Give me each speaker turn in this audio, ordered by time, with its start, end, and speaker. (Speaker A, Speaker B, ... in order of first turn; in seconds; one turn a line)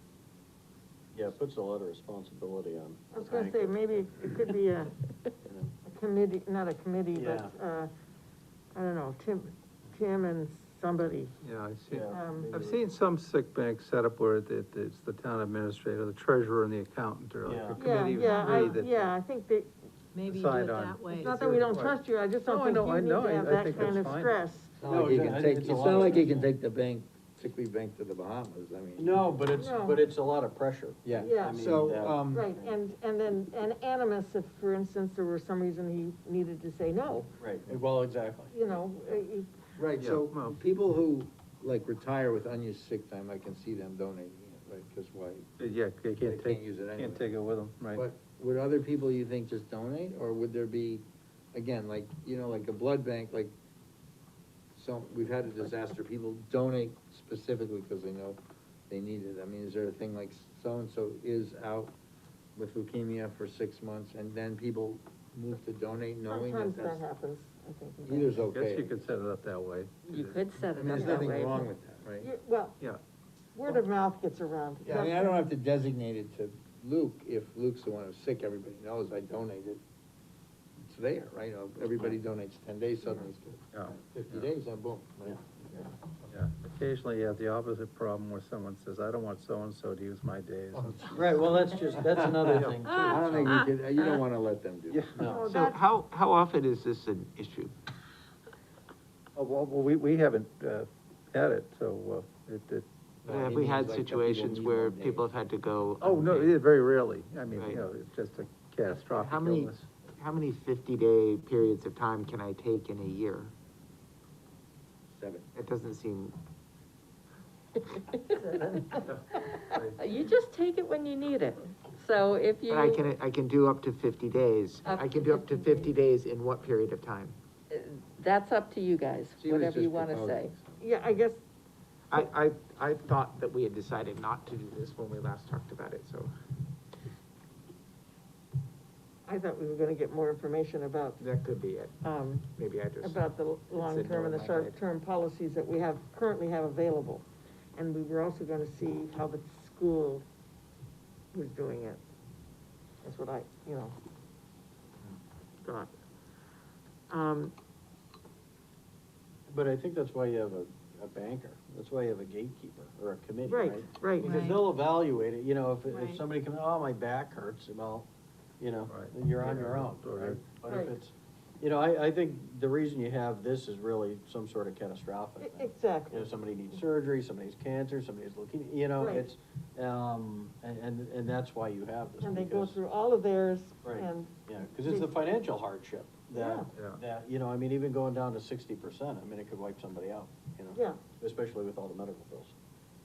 Speaker A: 1.1-4.0
Speaker B: 3.1-4.9
Speaker A: 5.5-5.7
Speaker B: 5.8-7.9
Speaker A: 7.1-7.5
Speaker B: 8.7-11.3
Speaker C: 11.4-19.1
Speaker A: 11.9-12.8
Speaker B: 12.1-12.5
Speaker A: 17.4-17.9
Speaker B: 17.8-19.7
Speaker D: 18.2-18.7
Speaker D: 20.1-21.5
Speaker C: 20.2-24.4
Speaker B: 21.1-24.8
Speaker E: 24.8-29.3
Speaker A: 24.8-26.5
Speaker A: 29.0-32.8
Speaker B: 29.5-30.0
Speaker E: 31.0-32.5
Speaker B: 31.2-31.7
Speaker B: 32.3-37.3
Speaker A: 37.4-38.5
Speaker B: 38.5-39.5
Speaker E: 39.8-45.5
Speaker C: 40.0-40.5
Speaker C: 45.6-48.0
Speaker E: 46.2-47.2
Speaker E: 47.9-53.5
Speaker E: 54.7-61.9
Speaker E: 62.5-67.0
Speaker B: 66.3-68.5
Speaker E: 68.0-68.9
Speaker C: 68.5-70.5
Speaker F: 70.1-71.7
Speaker E: 70.7-72.3
Speaker B: 71.0-71.4
Speaker B: 72.2-72.8
Speaker B: 73.5-75.4
Speaker E: 74.8-79.8
Speaker E: 80.8-85.8
Speaker C: 83.7-84.5
Speaker C: 86.3-93.5
Speaker E: 90.7-91.2
Speaker A: 91.2-93.5
Speaker E: 92.4-95.1
Speaker C: 94.9-95.2
Speaker A: 95.2-95.5
Speaker B: 95.2-95.9
Speaker G: 95.5-97.7
Speaker C: 99.3-102.8
Speaker E: 103.2-105.3
Speaker G: 103.3-106.5
Speaker C: 106.0-109.9
Speaker G: 107.5-107.8
Speaker G: 108.9-113.5
Speaker G: 115.2-116.3
Speaker F: 117.9-123.0
Speaker C: 119.7-120.0
Speaker G: 122.7-127.3
Speaker F: 124.8-125.9
Speaker F: 127.7-130.5
Speaker E: 129.4-130.8
Speaker B: 130.8-131.4
Speaker G: 132.1-136.3
Speaker B: 139.2-141.2
Speaker G: 141.2-141.9
Speaker B: 142.0-150.2
Speaker G: 142.5-144.7
Speaker B: 151.3-152.0
Speaker B: 153.0-153.9
Speaker B: 155.6-155.9
Speaker B: 157.1-157.5
Speaker A: 159.5-168.1
Speaker B: 163.4-164.4
Speaker D: 164.2-164.7
Speaker D: 165.9-166.2
Speaker A: 168.6-182.8
Speaker C: 168.9-170.5
Speaker B: 170.6-171.0
Speaker B: 175.4-176.3
Speaker B: 179.0-179.2
Speaker B: 182.2-185.2
Speaker A: 183.8-192.5
Speaker B: 186.3-186.7
Speaker C: 186.7-187.0
Speaker B: 190.7-191.0